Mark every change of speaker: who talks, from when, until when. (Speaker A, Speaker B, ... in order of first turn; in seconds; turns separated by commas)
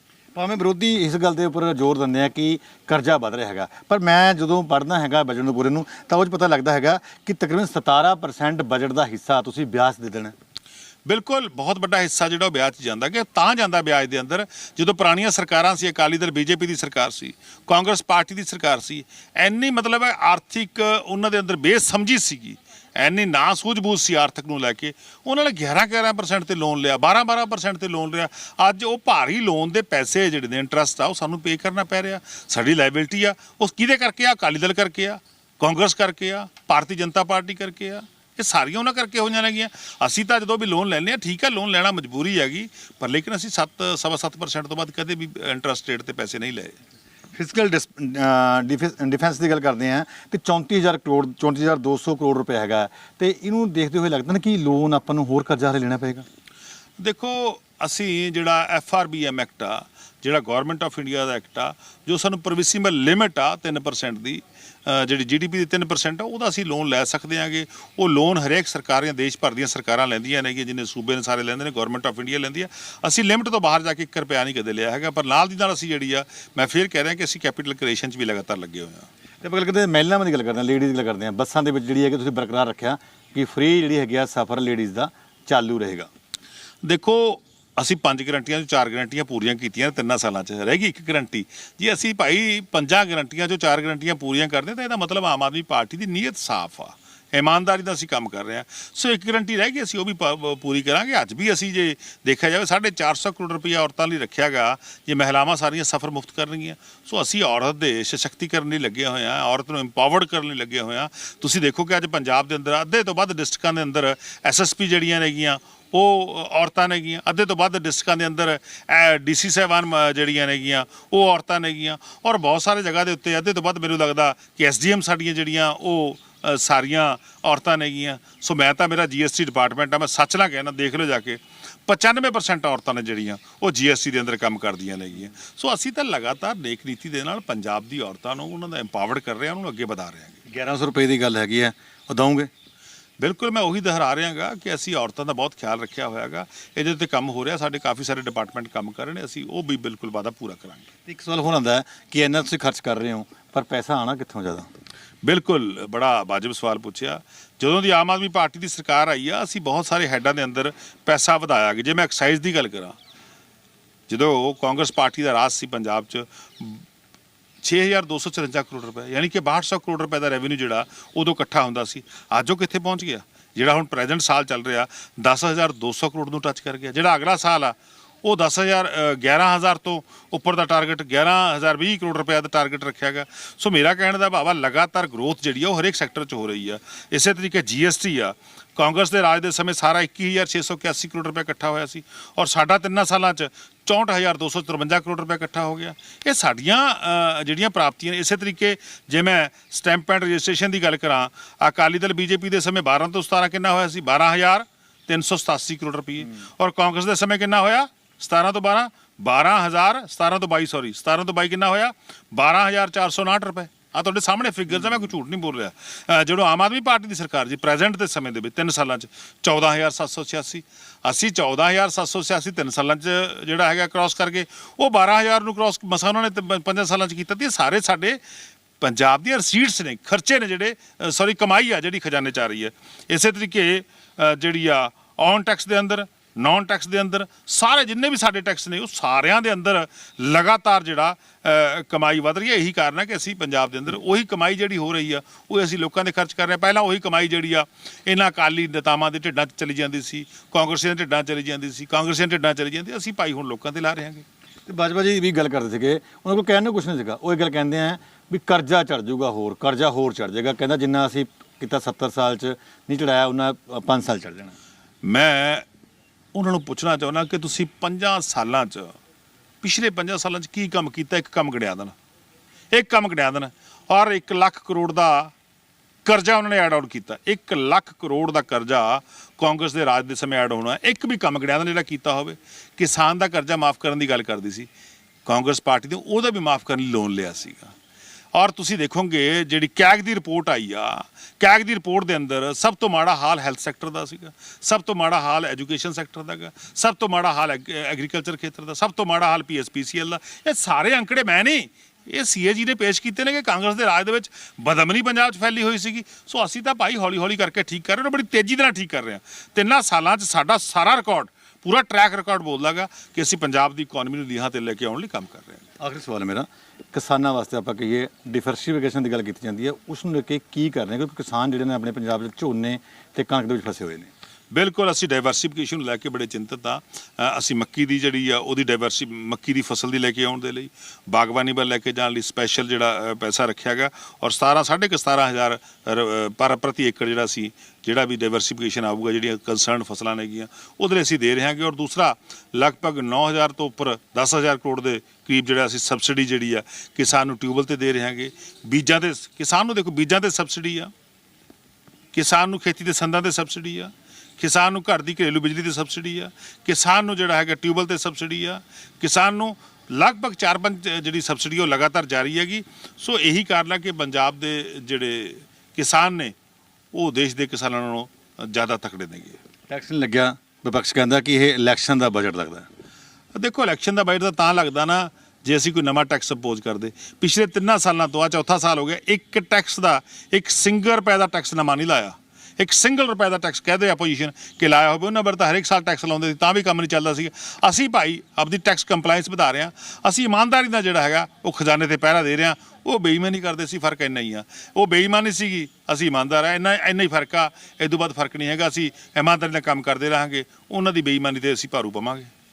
Speaker A: 0.3-10.3, Speaker B: 11.0-46.8, Speaker A: 47.3-56.2, Speaker B: 57.0-79.1, Speaker A: 79.4-86.1, Speaker B: 86.8-140.4, Speaker A: 140.5-142.5, Speaker B: 143.2-150.9, Speaker A: 151.1-154.7, Speaker B: 155.2-162.9, Speaker B: 164.1-166.8, Speaker B: 167.6-228.2, Speaker B: 228.8-254.2, Speaker A: 254.7-264.5, Speaker B: 265.0-265.6, Speaker B: 266.3-268.9, Speaker B: 269.6-271.9, Speaker B: 272.7-275.3, Speaker B: 276.0-284.7, Speaker B: 285.2-287.7, Speaker B: 288.3-315.7, Speaker A: 315.8-324.1, Speaker B: 324.5-350.9, Speaker B: 352.1-366.3, Speaker B: 366.9-369.4, Speaker A: 369.7-372.6, Speaker B: 373.3-402.3